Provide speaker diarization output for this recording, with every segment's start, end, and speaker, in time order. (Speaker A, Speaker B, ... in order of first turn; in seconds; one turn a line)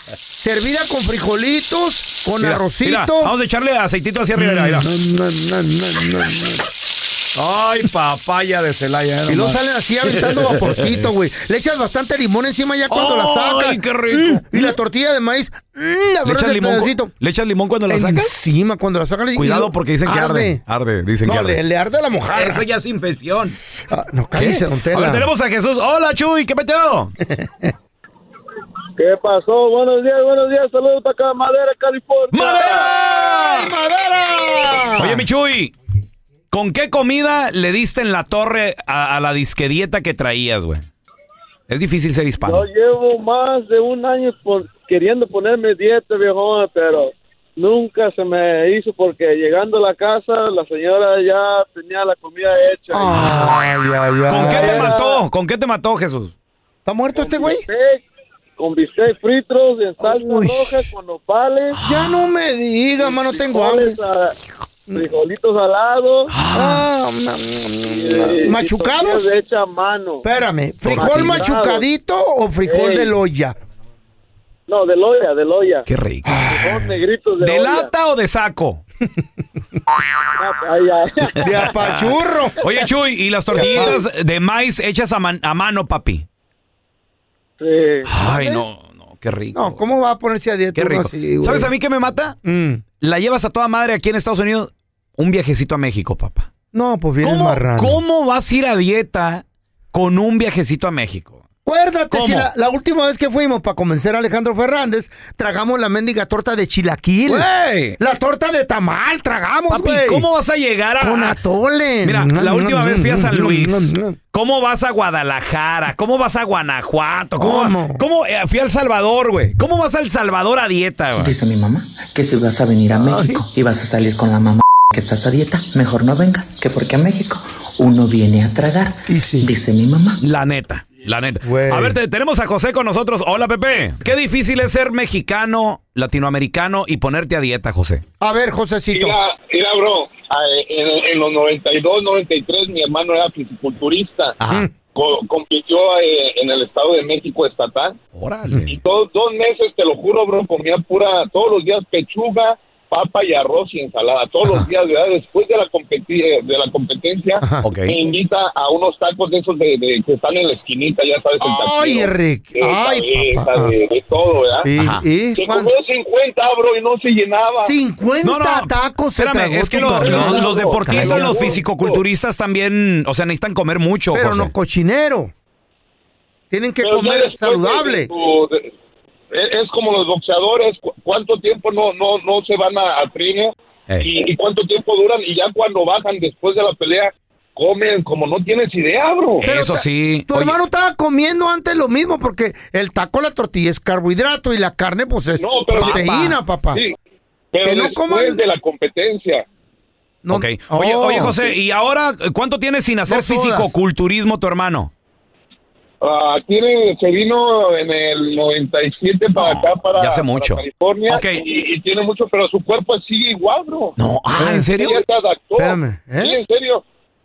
Speaker A: 0.4-3.3
Speaker B: 2.4-4.9
Speaker A: 4.3-6.7
Speaker B: 7.3-9.6
Speaker A: 9.2-17.1
Speaker B: 12.9-14.8
Speaker B: 16.2-18.3
Speaker A: 17.9-20.6
Speaker B: 19.4-21.6
Speaker A: 21.2-22.6
Speaker B: 22.3-23.6
Speaker A: 23.9-25.3
Speaker B: 24.3-27.1
Speaker A: 27.2-27.7
Speaker C: 29.0-32.9
Speaker B: 32.3-33.7
Speaker A: 32.3-35.3
Speaker B: 35.0-35.7
Speaker B: 36.5-40.8
Speaker B: 41.7-42.7
Speaker C: 42.4-53.2
Speaker A: 52.9-54.9
Speaker B: 53.1-53.6
Speaker B: 54.3-56.3
Speaker C: 54.3-55.2
Speaker A: 56.9-57.6
Speaker C: 57.1-58.0
Speaker C: 58.6-61.8
Speaker A: 60.0-60.9
Speaker B: 61.8-62.2
Speaker A: 61.8-64.0
Speaker C: 63.0-64.4
Speaker C: 64.9-66.3
Speaker B: 66.3-66.8
Speaker A: 66.5-69.3
Speaker C: 67.8-70.2
Speaker A: 70.2-73.5
Speaker B: 70.8-71.5
Speaker C: 70.9-71.8
Speaker C: 72.6-73.1
Speaker C: 74.7-75.8
Speaker B: 75.8-76.5
Speaker A: 76.2-77.0
Speaker C: 76.5-77.9
Speaker B: 77.4-78.8
Speaker C: 80.4-81.8
Speaker A: 81.3-82.6
Speaker B: 81.4-86.2
Speaker A: 83.5-84.0
Speaker C: 83.5-83.9
Speaker C: 87.6-88.6
Speaker B: 88.0-89.8
Speaker A: 89.5-91.7
Speaker B: 90.7-92.4
Speaker A: 92.4-92.8
Speaker B: 93.0-96.5
Speaker A: 96.7-98.0
Speaker B: 97.2-101.4
Speaker A: 101.7-110.3
Speaker B: 102.1-102.5
Speaker B: 107.2-108.0
Speaker B: 109.7-111.4
Speaker A: 111.0-114.2
Speaker B: 112.0-121.3
Speaker A: 117.4-118.0
Speaker D: 121.2-130.2
Speaker A: 122.9-123.4
Speaker A: 129.1-129.5
Speaker B: 130.2-138.0
Speaker A: 131.4-132.0
Speaker A: 138.2-139.2
Speaker E: 138.9-144.4
Speaker B: 144.4-144.7
Speaker E: 144.9-148.0
Speaker B: 148.1-148.8
Speaker E: 148.7-164.7
Speaker A: 157.4-157.7
Speaker B: 157.6-158.0
Speaker A: 161.4-163.7
Speaker A: 164.6-165.7
Speaker B: 164.7-165.1
Speaker E: 165.3-167.8
Speaker A: 167.6-171.5
Speaker B: 168.2-174.5
Speaker E: 169.8-172.0
Speaker A: 174.1-175.3
Speaker A: 176.5-178.1
Speaker E: 176.8-178.7
Speaker E: 179.3-189.4
Speaker B: 189.4-190.6
Speaker A: 189.4-196.8
Speaker E: 195.4-196.9
Speaker B: 195.7-196.4
Speaker E: 197.5-199.4
Speaker A: 197.6-198.4
Speaker A: 200.2-201.6
Speaker B: 200.3-204.9
Speaker A: 203.1-203.7
Speaker E: 206.0-213.9
Speaker B: 209.3-211.4
Speaker B: 214.0-215.0
Speaker A: 214.3-214.7
Speaker E: 214.7-216.8
Speaker A: 215.6-216.4